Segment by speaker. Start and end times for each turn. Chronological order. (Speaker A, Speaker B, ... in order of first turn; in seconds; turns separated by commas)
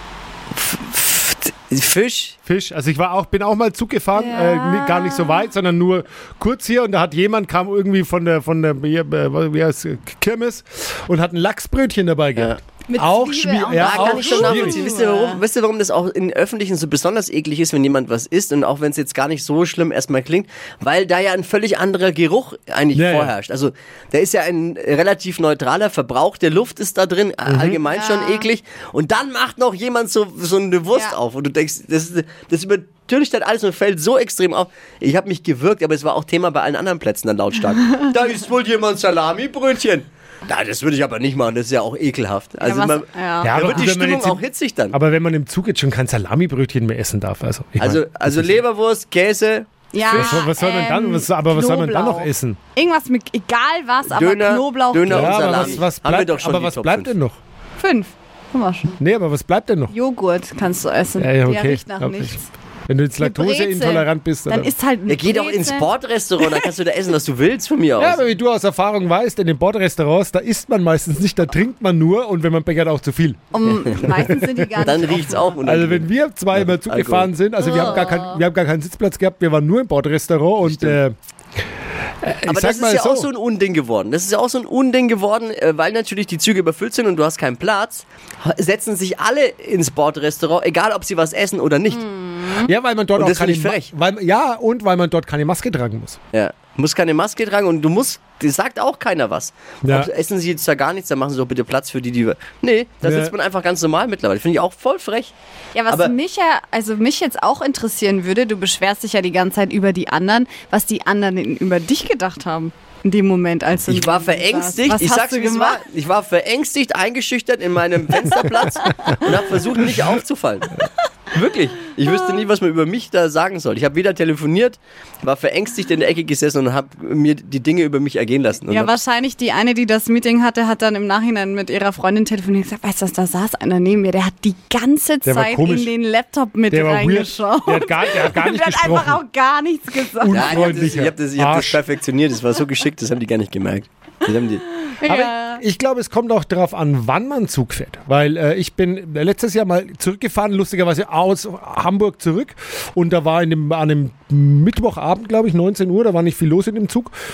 Speaker A: 0.6-2.4, Speaker B: 2.5-14.8, Speaker C: 4.2-5.5, Speaker C: 12.9-15.4, Speaker A: 13.7-45.0, Speaker B: 22.9-23.3, Speaker B: 27.5-27.8, Speaker C: 27.9-28.5, Speaker C: 42.6-43.8, Speaker B: 43.4-48.6, Speaker A: 47.8-50.4, Speaker C: 49.9-55.8, Speaker B: 50.1-52.6, Speaker A: 54.1-57.1, Speaker B: 55.1-57.4, Speaker C: 57.8-59.0, Speaker B: 59.0-59.9, Speaker C: 59.9-62.5, Speaker B: 61.2-62.4, Speaker B: 62.9-64.7, Speaker C: 63.2-65.9, Speaker A: 65.1-68.2, Speaker C: 66.4-66.7, Speaker B: 68.0-73.4, Speaker C: 73.5-75.5, Speaker A: 73.9-74.2, Speaker B: 74.0-74.9, Speaker A: 74.8-78.1, Speaker B: 75.6-81.2, Speaker C: 77.6-78.4, Speaker A: 80.6-81.0, Speaker B: 82.2-83.3, Speaker A: 82.5-92.1, Speaker C: 91.9-92.7, Speaker B: 92.6-96.2, Speaker A: 93.2-93.9, Speaker A: 96.3-105.3, Speaker B: 99.8-100.1, Speaker B: 103.0-103.3, Speaker C: 105.8-115.8, Speaker A: 105.9-106.1, Speaker A: 113.9-120.8, Speaker A: 121.3-128.9, Speaker C: 128.7-140.9, Speaker B: 135.2-135.9, Speaker B: 136.7-139.2, Speaker B: 140.2-141.8, Speaker A: 140.3-144.7, Speaker C: 145.0-145.6, Speaker B: 145.1-157.1